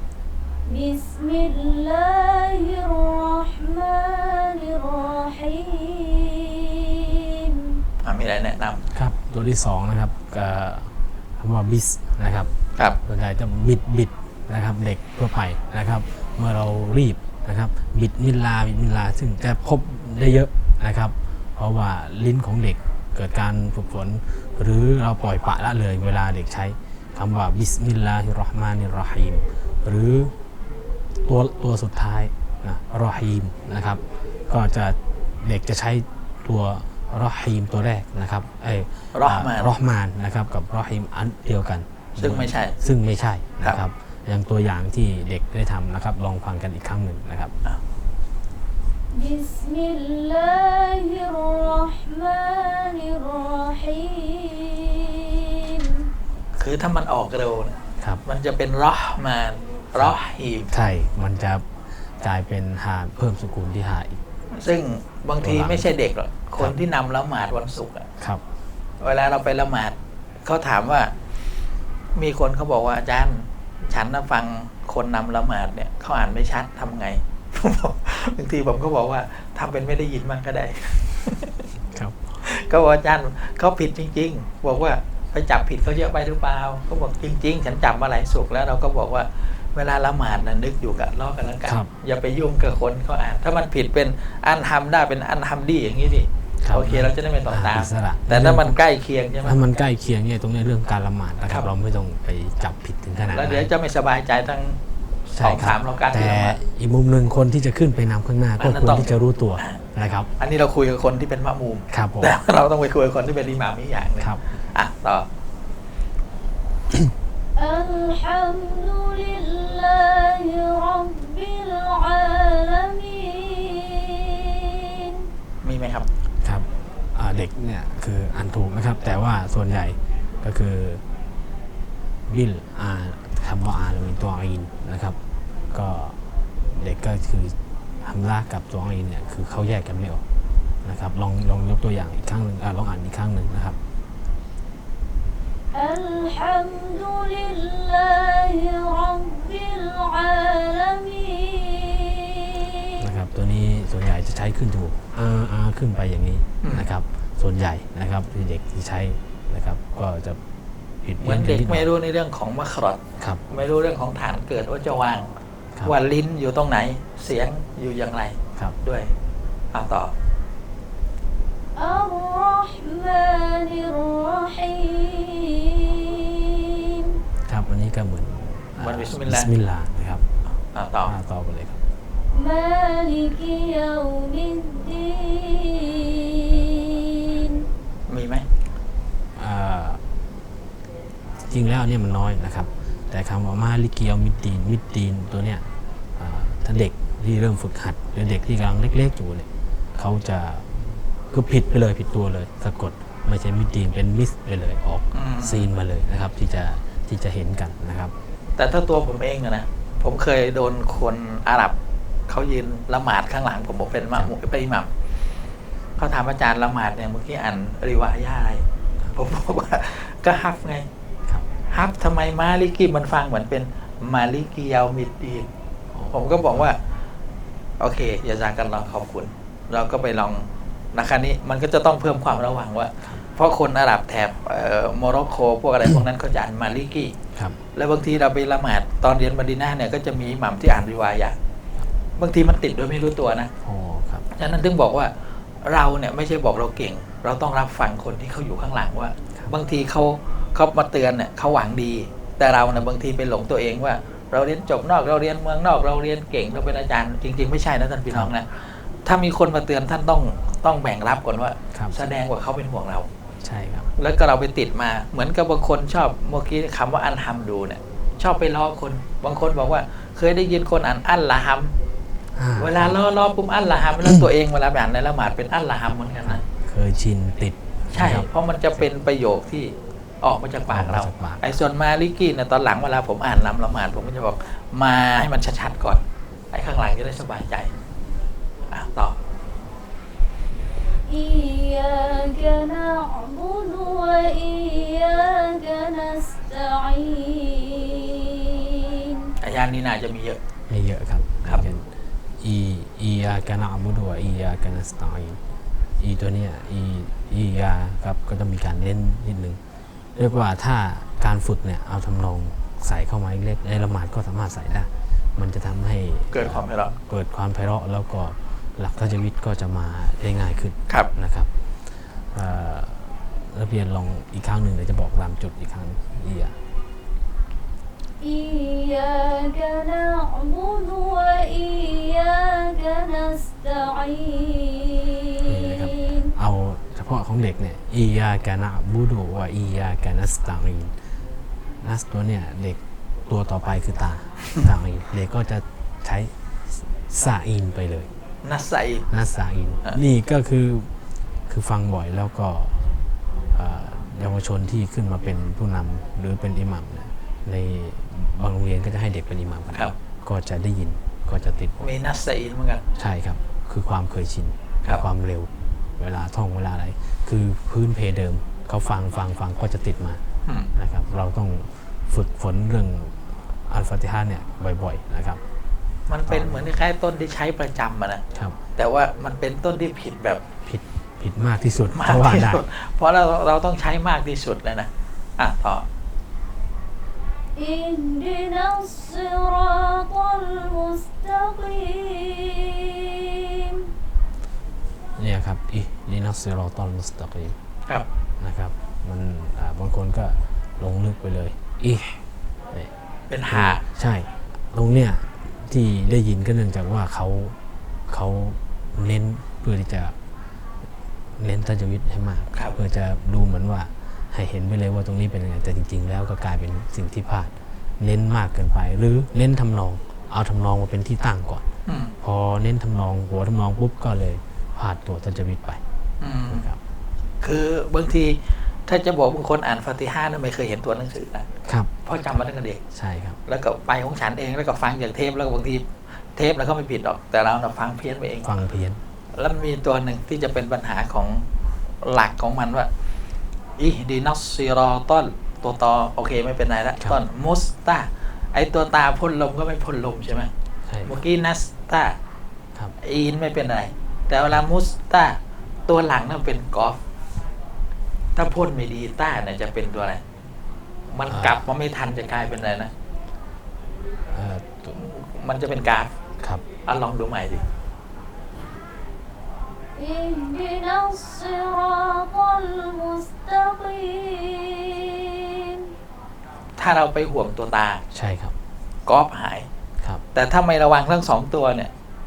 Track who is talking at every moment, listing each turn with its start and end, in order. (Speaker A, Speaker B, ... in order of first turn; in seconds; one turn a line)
Speaker A: 0.7-7.8
Speaker B: 8.0-8.8
Speaker C: 8.9-30.3
Speaker C: 31.2-47.5
Speaker B: 39.1-39.7
Speaker B: 42.2-42.8
Speaker A: 49.1-56.0
Speaker B: 56.5-60.7
Speaker C: 60.7-64.2
Speaker B: 64.5-68.1
Speaker C: 65.4-65.9
Speaker B: 69.0-71.1
Speaker B: 72.2-81.7
Speaker C: 81.9-82.4
Speaker B: 82.4-99.6
Speaker C: 91.6-91.9
Speaker C: 96.6-98.8
Speaker C: 99.4-103.7
Speaker B: 103.3-106.6
Speaker C: 105.4-110.3
Speaker B: 108.6-109.8
Speaker B: 110.4-115.2
Speaker C: 111.9-112.4
Speaker C: 114.2-114.4
Speaker A: 117.5-125.3
Speaker B: 125.6-126.1
Speaker C: 126.4-131.0
Speaker C: 132.3-135.2
Speaker C: 135.7-140.2
Speaker C: 140.8-143.8
Speaker A: 145.7-153.0
Speaker C: 153.0-160.4
Speaker B: 156.6-156.9
Speaker C: 161.0-161.9
Speaker B: 161.2-165.3
Speaker C: 163.2-163.4
Speaker B: 165.8-169.1
Speaker B: 169.7-170.1
Speaker A: 171.8-177.2
Speaker C: 177.4-180.2
Speaker B: 178.8-179.5
Speaker B: 180.7-181.1
Speaker C: 181.0-181.8
Speaker A: 182.3-187.6
Speaker B: 188.1-188.4
Speaker C: 189.3-190.0
Speaker C: 191.3-208.1
Speaker B: 205.1-205.7
Speaker B: 208.6-211.7
Speaker B: 212.3-214.9
Speaker B: 216.0-218.6
Speaker B: 219.1-220.8
Speaker B: 221.7-225.5
Speaker C: 225.9-226.7
Speaker B: 226.1-226.8
Speaker B: 227.8-237.1
Speaker C: 237.3-237.6
Speaker B: 237.7-241.3
Speaker B: 242.2-243.5
Speaker C: 243.6-244.3
Speaker B: 244.3-245.1
Speaker B: 245.6-263.1
Speaker C: 261.7-262.0
Speaker C: 263.4-263.9
Speaker B: 264.0-271.7
Speaker C: 272.3-273.0
Speaker B: 272.6-276.4
Speaker C: 276.2-278.3
Speaker B: 277.9-287.7
Speaker C: 280.7-281.4
Speaker B: 288.7-289.1
Speaker A: 291.1-299.3
Speaker B: 299.4-300.4
Speaker C: 300.7-301.9
Speaker C: 302.4-305.4
Speaker C: 306.0-309.6
Speaker C: 310.1-321.5
Speaker B: 316.3-317.0
Speaker C: 322.3-326.6
Speaker A: 328.2-336.3
Speaker C: 335.4-341.1
Speaker C: 341.8-346.3
Speaker C: 346.9-348.1
Speaker B: 348.4-349.1
Speaker C: 349.1-350.9
Speaker C: 351.5-352.9
Speaker C: 353.5-361.9
Speaker B: 361.8-362.8
Speaker C: 362.9-370.2
Speaker B: 370.4-370.7
Speaker C: 370.7-375.4
Speaker B: 376.1-378.2
Speaker C: 376.3-376.6
Speaker B: 378.7-380.4
Speaker C: 380.6-382.6
Speaker B: 381.9-385.8
Speaker A: 387.6-393.9
Speaker C: 395.2-397.6
Speaker C: 398.4-402.2
Speaker B: 403.3-403.8
Speaker C: 403.5-407.6
Speaker C: 408.1-410.1
Speaker C: 411.4-421.6
Speaker B: 421.9-422.1
Speaker C: 422.2-425.8
Speaker B: 426.2-426.6
Speaker C: 426.5-426.8
Speaker B: 427.4-431.5
Speaker C: 431.6-431.9
Speaker B: 432.0-432.8
Speaker C: 432.9-433.4
Speaker B: 433.4-438.5
Speaker C: 438.4-439.0
Speaker B: 439.3-441.4
Speaker B: 442.0-442.9
Speaker B: 443.8-450.5
Speaker C: 450.9-451.1
Speaker B: 451.0-452.1
Speaker B: 453.0-457.0
Speaker B: 458.3-460.2
Speaker B: 461.1-462.9
Speaker C: 461.3-461.6
Speaker C: 464.3-465.0
Speaker B: 464.9-466.1
Speaker C: 466.4-466.6
Speaker B: 466.8-467.6
Speaker A: 469.9-475.9
Speaker B: 476.8-478.0
Speaker C: 478.1-478.6
Speaker B: 479.1-479.7
Speaker B: 480.3-481.9